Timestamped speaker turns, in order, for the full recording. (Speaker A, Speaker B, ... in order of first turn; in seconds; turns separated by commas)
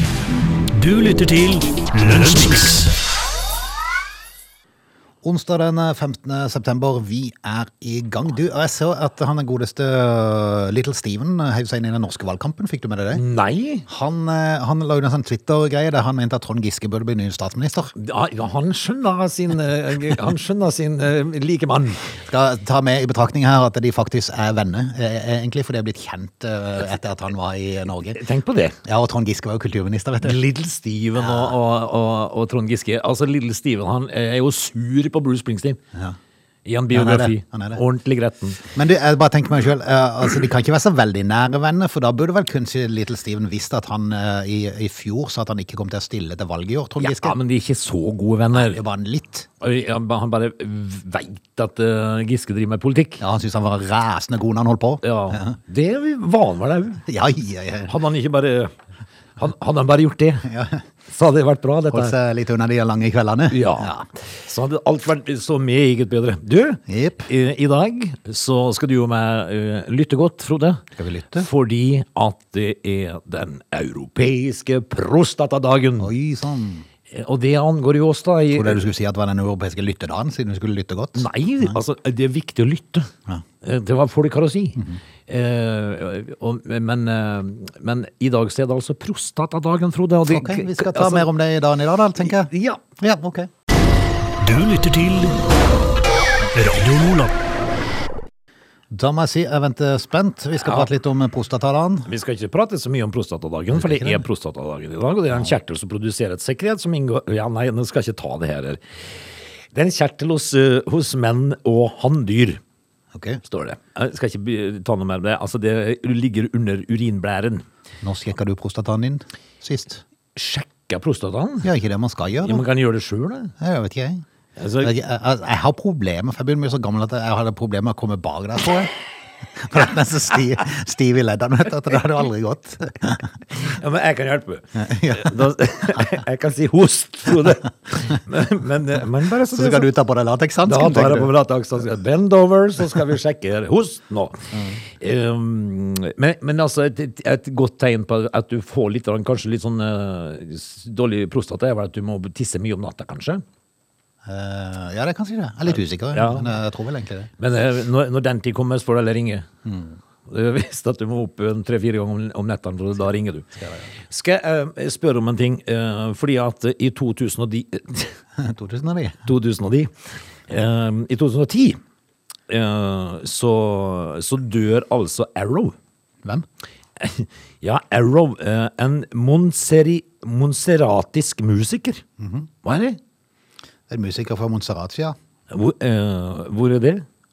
Speaker A: 0.7-2.9, Speaker B: 5.2-13.2, Speaker C: 13.1-13.9, Speaker B: 13.9-17.9, Speaker C: 18.0-22.1, Speaker B: 22.3-28.2, Speaker C: 28.1-28.8, Speaker B: 28.9-30.4, Speaker C: 30.2-35.8, Speaker B: 31.2-31.6, Speaker C: 36.6-38.6, Speaker B: 36.9-37.8, Speaker B: 38.7-47.4, Speaker C: 47.0-48.8, Speaker B: 48.5-49.5, Speaker C: 49.6-53.2, Speaker B: 53.2-55.6, Speaker C: 55.0-57.0, Speaker B: 57.1-57.9, Speaker C: 57.9-58.7, Speaker C: 59.4-60.5, Speaker B: 60.5-60.8, Speaker C: 61.1-62.1, Speaker B: 61.9-64.1, Speaker C: 63.5-70.8, Speaker B: 66.9-67.3, Speaker B: 71.0-71.5, Speaker C: 71.3-76.1, Speaker B: 76.0-76.9, Speaker C: 77.1-78.9, Speaker B: 78.5-81.8, Speaker C: 81.2-83.1, Speaker C: 83.6-91.3, Speaker B: 90.3-93.5, Speaker C: 92.2-92.8, Speaker A: 94.4-95.4, Speaker A: 96.5-97.3, Speaker B: 98.9-102.1, Speaker C: 100.6-100.9, Speaker C: 102.1-108.8, Speaker B: 103.8-104.2, Speaker C: 109.7-112.6, Speaker B: 113.1-113.4, Speaker C: 113.4-117.7, Speaker B: 118.0-120.0, Speaker C: 120.3-121.7, Speaker B: 121.6-122.6, Speaker C: 122.4-123.5, Speaker B: 123.6-124.2, Speaker C: 124.6-124.9, Speaker B: 124.8-128.9, Speaker B: 129.6-133.3, Speaker C: 133.5-139.9, Speaker B: 134.8-135.3, Speaker B: 139.5-141.3, Speaker C: 140.7-153.4, Speaker B: 154.2-157.3, Speaker C: 156.1-156.6, Speaker C: 157.4-159.5, Speaker B: 159.7-159.9, Speaker C: 160.3-168.2, Speaker B: 163.6-163.9, Speaker B: 168.4-169.2, Speaker C: 169.2-169.9, Speaker C: 170.5-171.8, Speaker C: 172.5-175.8, Speaker C: 177.0-182.0, Speaker B: 182.2-182.5, Speaker C: 182.6-183.0, Speaker B: 183.9-185.2, Speaker C: 185.5-187.1